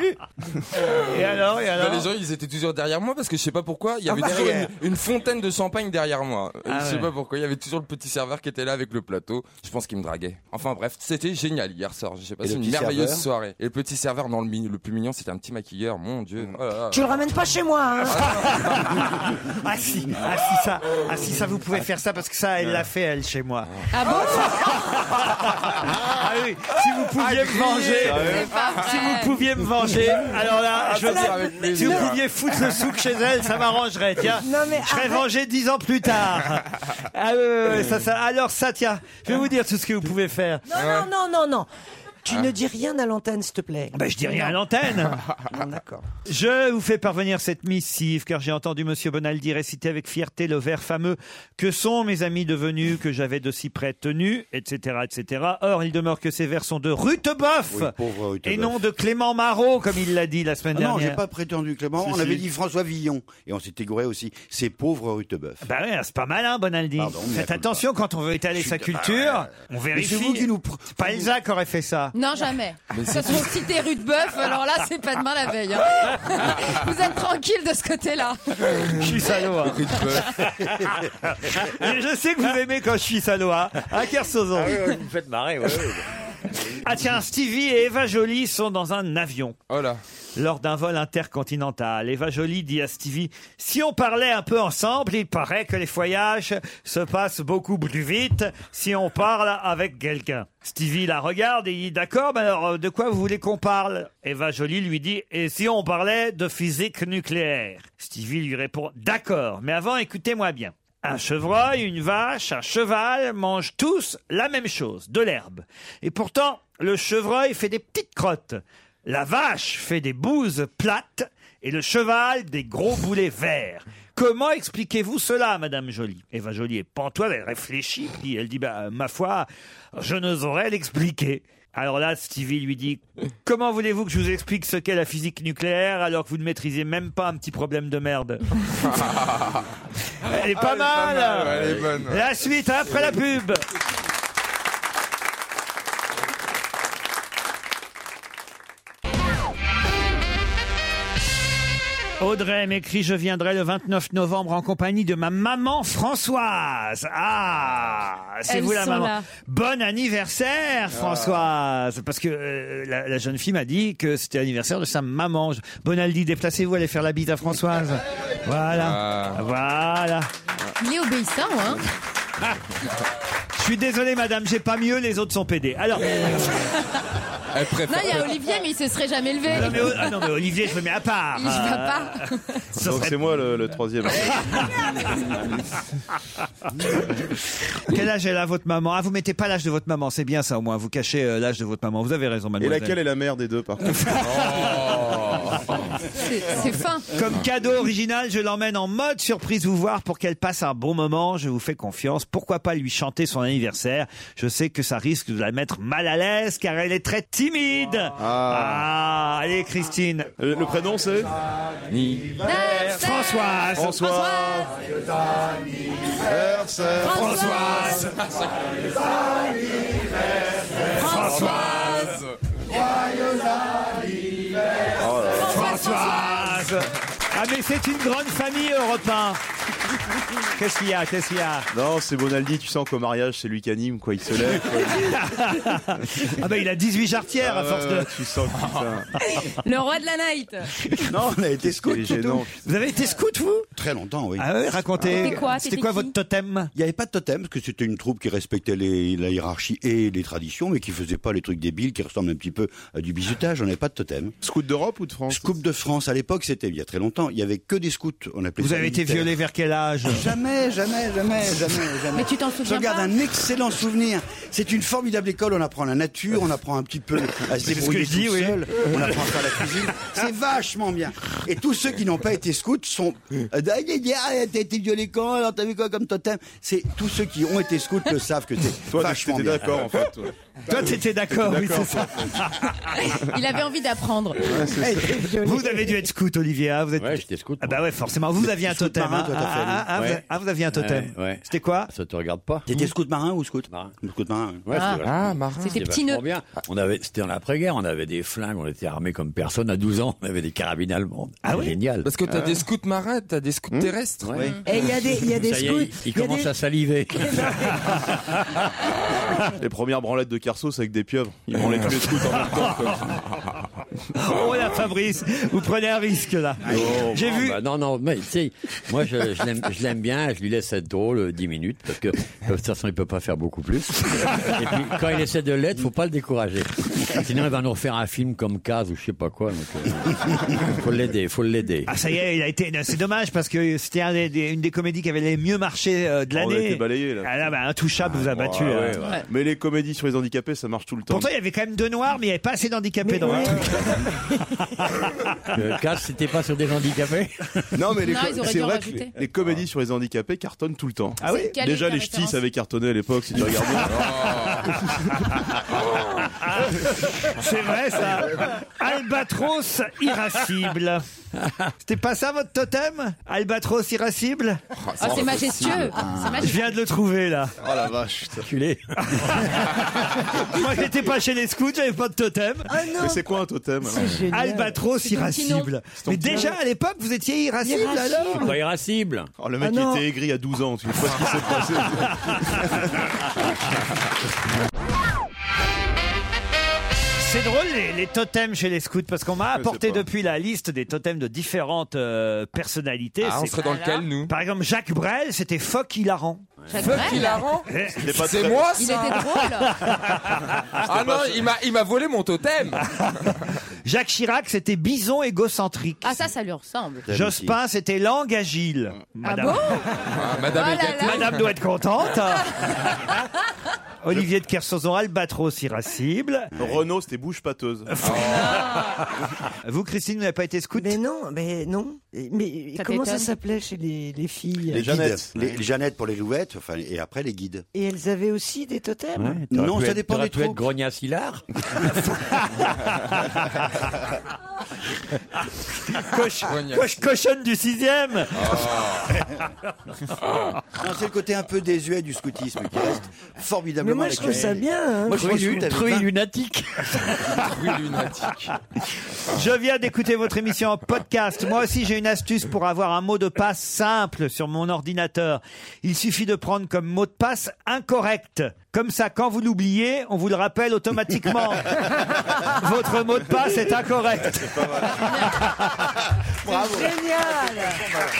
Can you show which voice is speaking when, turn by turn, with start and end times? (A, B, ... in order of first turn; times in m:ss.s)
0:00.8-0:17.1 A
0:01.0-0:02.1 B
0:04.4-0:04.7 B
0:06.7-0:07.1 B
0:12.4-0:13.3 C
0:16.9-0:18.4 D
0:18.1-0:19.0 A
0:18.2-0:40.7 B
0:22.6-0:22.9 E
0:23.9-0:24.9 F
0:27.2-0:28.4 A
0:28.0-0:28.5 E
0:28.2-0:29.4 F
0:30.7-0:32.2 D
0:30.8-0:32.2 A
0:34.3-0:35.3 D
0:40.7-0:41.7 D
0:40.8-0:41.1 A
0:42.2-0:44.6 D
0:43.9-0:45.2 B
0:45.4-0:46.1 D
0:46.3-0:57.9 B
0:57.7-0:58.8 C
0:58.4-1:01.2 B
1:00.7-1:05.6 C
1:02.0-1:02.5 E
1:05.6-1:12.2 B
1:07.0-1:07.8 C
1:08.6-1:11.3 C
1:12.1-1:18.9 F
1:12.9-1:13.5 A
1:18.7-1:20.5 A
1:18.9-1:20.0 B
1:20.6-1:20.9 G
1:21.2-1:24.9 B
1:24.5-1:26.1 G
1:26.8-1:29.6 B
1:29.7-1:30.0 A
1:30.4-2:18.7 B
2:18.8-2:19.7 A
2:20.2-2:23.6 B
2:20.3-2:22.3 A
2:21.5-2:21.9 G
2:32.2-2:50.3 B
2:38.5-2:39.3 F
2:48.7-2:49.4 A
2:50.8-2:51.9 F
2:53.6-2:56.7 B
2:57.5-2:58.4 A
2:57.8-3:00.2 F
2:59.5-3:03.2 B
3:01.4-3:02.7 F
3:02.8-3:04.8 E
3:04.6-3:05.1 B
3:06.8-3:13.0 B
3:12.6-3:14.2 E
3:14.0-3:14.7 B
3:14.2-3:15.8 A
3:16.1-3:17.1 F
3:17.1-3:30.3 B
3:28.2-3:28.9 E
3:30.4-3:31.3 E
3:31.9-3:32.4 A
3:32.4-3:34.7 F
3:32.8-3:34.0 B
3:33.8-3:34.8 E
3:36.2-3:37.3 E
3:37.0-3:38.0 F
3:37.0-3:38.2 B
3:38.0-3:38.7 A
3:40.9-3:42.2 B
3:40.9-3:42.2 F
3:41.5-3:42.3 A
3:45.0-3:45.7 E
3:45.4-3:49.4 B
3:45.4-3:46.6 F
3:50.6-3:51.7 B
3:51.7-3:55.2 E
3:54.9-3:58.2 B
3:57.4-3:59.1 E
3:59.2-4:00.7 F
4:01.0-4:02.3 C
4:01.8-4:02.6 E
4:02.1-4:03.7 B
4:03.8-4:04.5 C
4:04.4-4:06.7 B
4:05.0-4:06.1 F
4:05.0-4:05.3 C
4:06.8-4:14.4 C
4:14.4-4:15.5 E
4:15.3-4:19.3 C
4:18.6-4:20.3 B
4:20.0-4:40.1 C
4:22.1-4:23.2 F
4:27.7-4:29.1 B
4:38.9-4:43.1 E
4:40.7-4:43.0 B
4:43.1-4:44.7 F
4:44.5-4:45.3 E
4:44.6-4:46.0 D
4:45.4-4:51.9 B
4:47.0-4:47.9 G
4:48.4-4:49.9 C
4:49.9-4:52.9 G
4:52.7-4:54.7 C
4:53.7-4:54.0 G
4:54.6-5:02.1 G
4:54.7-4:55.0 F
4:55.0-4:55.8 A
4:55.6-4:56.2 F
5:01.4-5:01.8 B
5:02.0-5:04.5 A
5:04.2-5:08.6 G
5:04.6-5:06.5 D
5:07.2-5:07.9 D
5:09.6-5:13.2 E
5:12.4-5:13.1 A
5:12.4-5:13.0 B
5:14.2-5:17.6 B
5:16.7-5:31.9 G
5:31.9-5:39.0 B
5:36.3-5:37.5 E
5:38.0-5:39.2 G
5:38.6-5:41.3 E
5:39.0-5:39.3 F
5:41.1-5:44.1 B
5:43.0-5:44.3 D
5:44.7-5:45.5 B
5:45.5-5:47.8 G
5:47.7-5:55.3 E
5:48.0-5:49.1 F
5:51.2-5:52.4 F
5:51.2-5:51.5 B
5:53.9-5:54.8 A
5:54.0-5:55.6 B
5:56.2-6:01.0 B
6:01.4-6:01.7 G
6:01.8-6:04.6 B
6:04.8-6:06.0 A
6:05.0-6:06.7 F
6:06.4-6:07.5 B
6:07.6-6:08.5 E
6:08.4-6:09.5 G
6:09.0-6:12.7 B
6:12.7-6:15.3 D
6:13.0-6:14.2 E
6:14.3-6:18.5 B
6:15.2-6:15.7 F
6:15.9-6:16.5 E
6:17.6-6:18.5 D
6:18.4-6:19.3 G
6:19.4-6:23.5 E
6:19.6-6:20.1 D
6:22.0-6:22.7 B
6:27.2-6:33.6 B
6:29.5-6:30.1 E
6:33.2-6:34.3 A
6:33.6-6:34.1 F
6:34.3-6:38.2 B
6:36.7-6:37.6 F
6:36.8-6:39.2 A
6:37.9-6:38.8 E
6:38.8-6:39.8 F
6:39.1-6:40.8 B
6:40.8-6:41.4 E
6:40.8-6:43.3 A
6:43.0-6:46.2 B
6:46.0-6:47.1 F
6:47.1-6:47.6 C
6:47.1-6:49.8 B
6:49.2-6:51.4 F
6:50.1-6:51.4 A
6:51.0-6:53.2 B
6:52.6-6:53.1 F
6:54.0-6:56.5 B
6:56.6-6:56.8 C
6:56.6-6:58.1 E
6:57.9-6:59.0 B
6:58.0-6:58.6 A
6:58.2-6:59.0 F
6:59.6-7:01.0 B
7:00.8-7:05.0 D
7:02.8-7:03.3 F
7:04.7-7:05.3 E
7:04.7-7:07.7 C
7:07.7-7:09.4 D
7:09.2-7:12.0 G
7:09.5-7:10.6 C
7:12.2-7:13.7 B
7:15.8-7:18.7 B
7:16.4-7:17.0 A
7:18.3-7:19.2 A
7:20.8-7:26.1 C
7:23.8-7:25.3 D
7:24.2-7:24.5 G
7:25.1-7:27.1 G
7:27.3-7:28.5 A
7:29.2-7:45.9 B
7:44.4-7:45.0 E
7:46.4-7:48.0 D
7:46.5-7:46.9 C